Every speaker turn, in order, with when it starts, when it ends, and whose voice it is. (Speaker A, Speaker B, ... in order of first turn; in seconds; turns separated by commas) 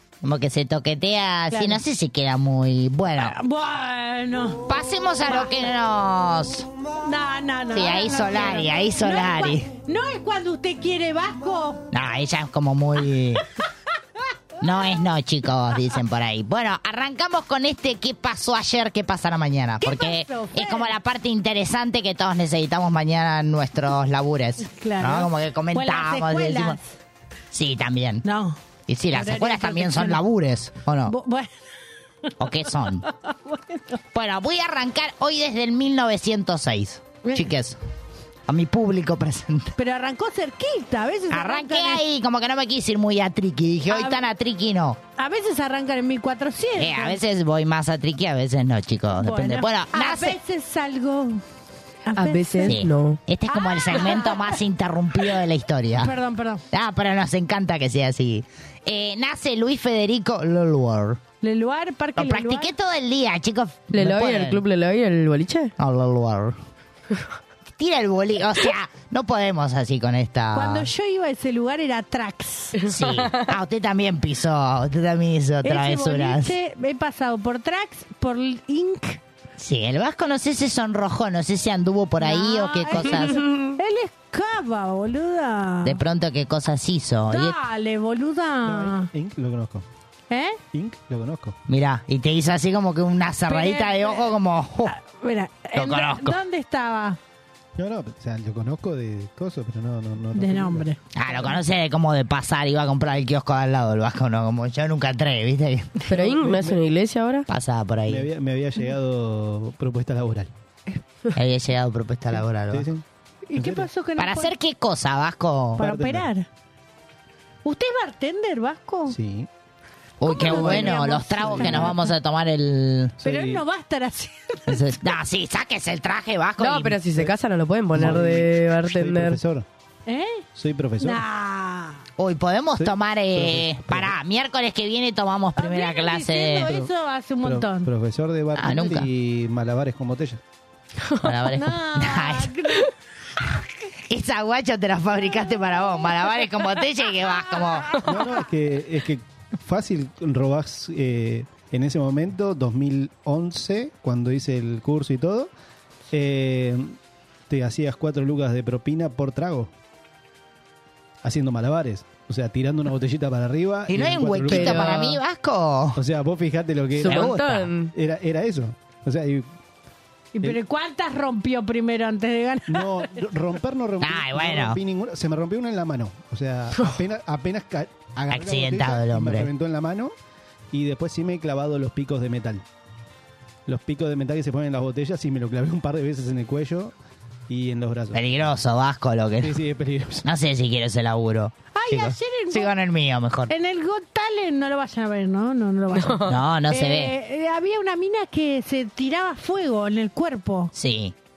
Speaker A: 0.2-3.4, Speaker B: 1.5-1.8, Speaker B: 3.2-4.7, Speaker A: 4.7-6.7, Speaker B: 5.3-5.6, Speaker B: 7.0-11.8, Speaker A: 7.7-9.7, Speaker A: 11.9-13.4, Speaker A: 14.6-26.8, Speaker B: 19.8-20.9, Speaker B: 24.6-26.9, Speaker A: 27.5-28.2, Speaker B: 28.2-28.6, Speaker A: 28.9-31.1, Speaker B: 29.1-30.2, Speaker B: 31.1-31.5, Speaker A: 32.4-33.0, Speaker B: 33.0-34.0, Speaker A: 34.1-37.8, Speaker A: 38.5-39.7, Speaker B: 39.8-42.0, Speaker A: 41.3-45.0, Speaker B: 43.9-44.2, Speaker B: 45.2-47.2, Speaker A: 46.8-50.4, Speaker B: 49.2-51.4, Speaker B: 52.0-52.8, Speaker C: 52.1-53.2, Speaker A: 52.6-56.1, Speaker B: 53.5-54.5, Speaker B: 56.0-56.6, Speaker A: 56.7-61.2, Speaker B: 61.4-62.7, Speaker A: 62.2-64.6, Speaker C: 63.9-65.7, Speaker A: 65.8-66.5, Speaker A: 67.8-70.9, Speaker B: 70.5-72.8, Speaker C: 72.8-73.4, Speaker A: 72.8-76.5, Speaker B: 75.6-79.2, Speaker A: 79.6-83.4, Speaker B: 82.2-86.0, Speaker A: 85.8-87.6, Speaker B: 87.3-89.1, Speaker D: 88.6-89.8, Speaker B: 90.3-90.6, Speaker D: 90.7-91.5, Speaker A: 91.7-94.9, Speaker B: 93.5-94.3, Speaker B: 94.8-97.2, Speaker A: 95.7-96.4, Speaker D: 97.8-100.9, Speaker B: 100.3-101.0, Speaker A: 101.1-106.0, Speaker C: 106.1-107.5, Speaker D: 106.2-106.8, Speaker A: 107.5-108.3, Speaker D: 108.1-111.0, Speaker A: 111.3-112.9, Speaker D: 112.7-113.0, Speaker B: 113.5-114.5, Speaker D: 113.5-113.9, Speaker A: 114.2-115.8, Speaker D: 115.8-116.3, Speaker B: 115.8-116.5, Speaker B: 117.6-119.2, Speaker D: 119.1-119.5, Speaker A: 120.2-123.1, Speaker B: 120.2-122.1, Speaker D: 120.4-121.9, Speaker D: 123.2-123.6, Speaker B: 123.2-124.8, Speaker A: 124.7-127.0, Speaker C: 126.6-129.4, Speaker D: 127.9-129.7, Speaker B: 130.1-130.4, Speaker D: 130.5-131.2, Speaker B: 131.0-132.0, Speaker A: 132.2-136.7, Speaker D: 132.8-134.1, Speaker B: 135.6-137.9, Speaker D: 137.4-140.4, Speaker A: 138.6-139.1, Speaker A: 141.2-142.8, Speaker B: 141.5-142.9, Speaker A: 144.1-147.9, Speaker D: 148.0-155.5, Speaker D: 156.1-156.9, Speaker D: 157.5-159.7, Speaker D: 161.2-165.1, Speaker A: 163.9-166.0, Speaker C: 164.5-165.2, Speaker D: 165.9-167.4, Speaker C: 167.0-167.9, Speaker A: 167.0-167.7, Speaker D: 167.9-169.5, Speaker B: 170.3-173.2, Speaker D: 172.7-180.1, Speaker A: 174.0-174.8, Speaker A: 178.3-179.5, Speaker D: 180.7-182.6, Speaker D: 183.7-186.9, Speaker D: 187.5-188.2, Speaker A: 188.1-189.6, Speaker D: 189.4-190.2, Speaker A: 190.2-193.5, Speaker B: 191.7-192.7, Speaker B: 193.5-200.7, Speaker C: 195.9-196.3, Speaker A: 196.2-197.1, Speaker A: 200.7-201.1